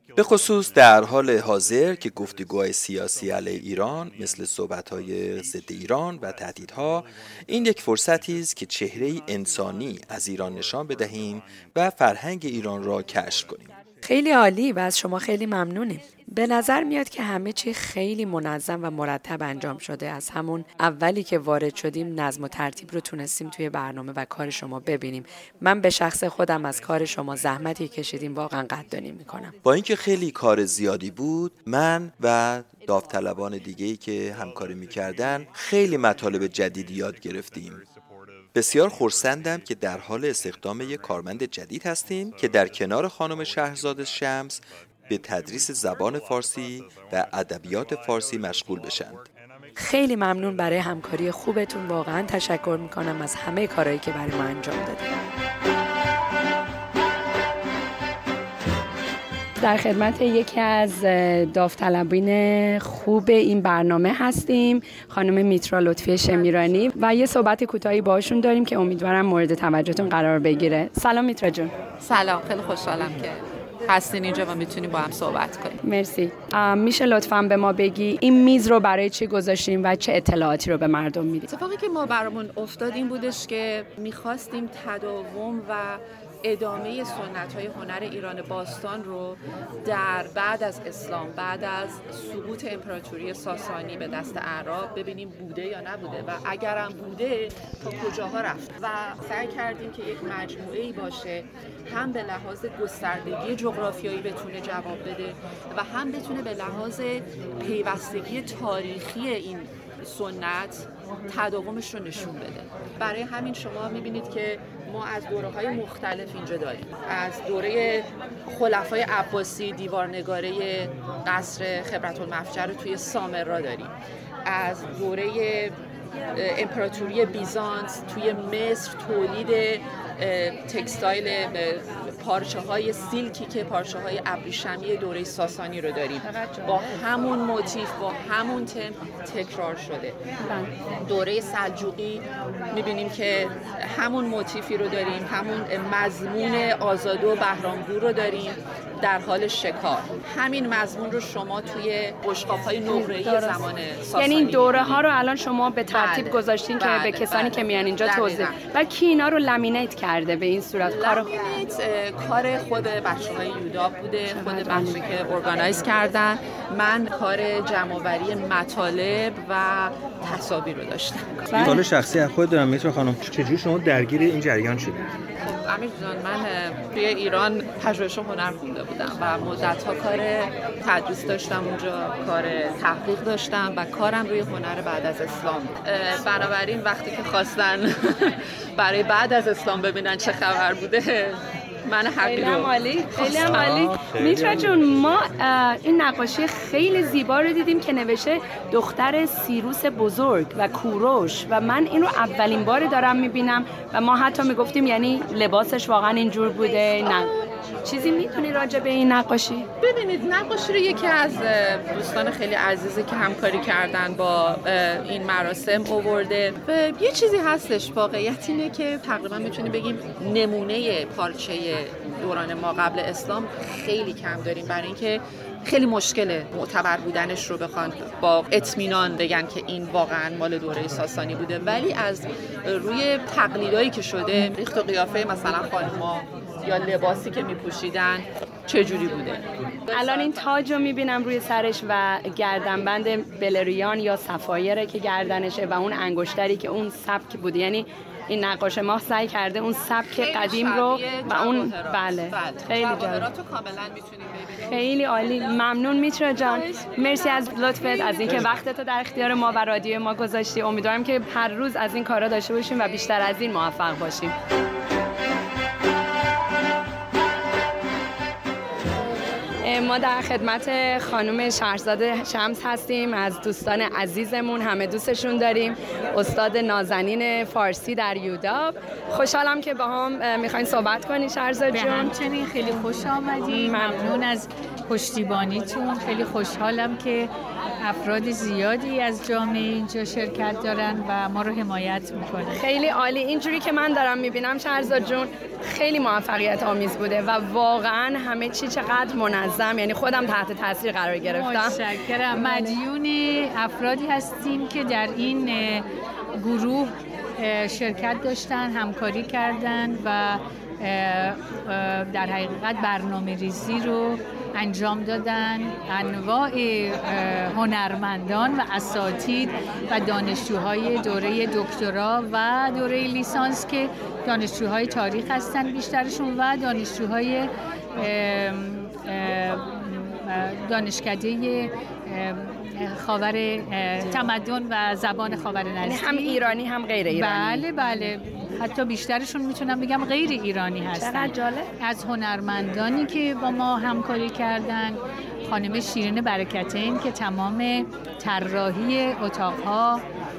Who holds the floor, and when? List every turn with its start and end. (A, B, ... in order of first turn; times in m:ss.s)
0:00.2-0:13.7 A
0:14.0-0:29.5 B
0:29.6-0:37.8 A
0:38.6-0:49.3 A
0:49.8-0:55.1 B
0:59.6-1:11.7 B
1:12.0-1:15.8 C
1:15.8-1:21.5 B
1:21.5-2:03.9 C
2:04.4-2:05.8 C
2:06.3-2:20.2 C
2:16.6-2:17.0 B
2:21.0-2:35.0 C
2:32.8-2:33.6 B
2:34.2-2:41.3 B
2:35.9-2:38.6 C
2:40.8-2:51.7 C
2:44.3-2:45.0 B
2:51.5-2:51.8 B
2:51.6-2:54.9 D
2:55.4-3:13.5 C
3:12.2-3:27.3 B
3:27.8-3:29.7 B
3:29.8-4:00.6 C
3:59.9-4:13.3 B
4:10.0-4:15.4 C
4:14.6-4:24.3 B
4:17.8-4:18.4 C
4:29.6-4:42.2 B
4:41.7-4:47.3 E
4:43.5-4:44.1 B
4:47.8-4:52.6 E
4:52.5-5:02.8 B
5:01.3-5:05.8 E
5:06.4-5:36.5 E
5:34.0-5:34.3 B
5:35.8-5:38.1 B
5:37.1-5:50.0 E
5:40.9-5:41.7 B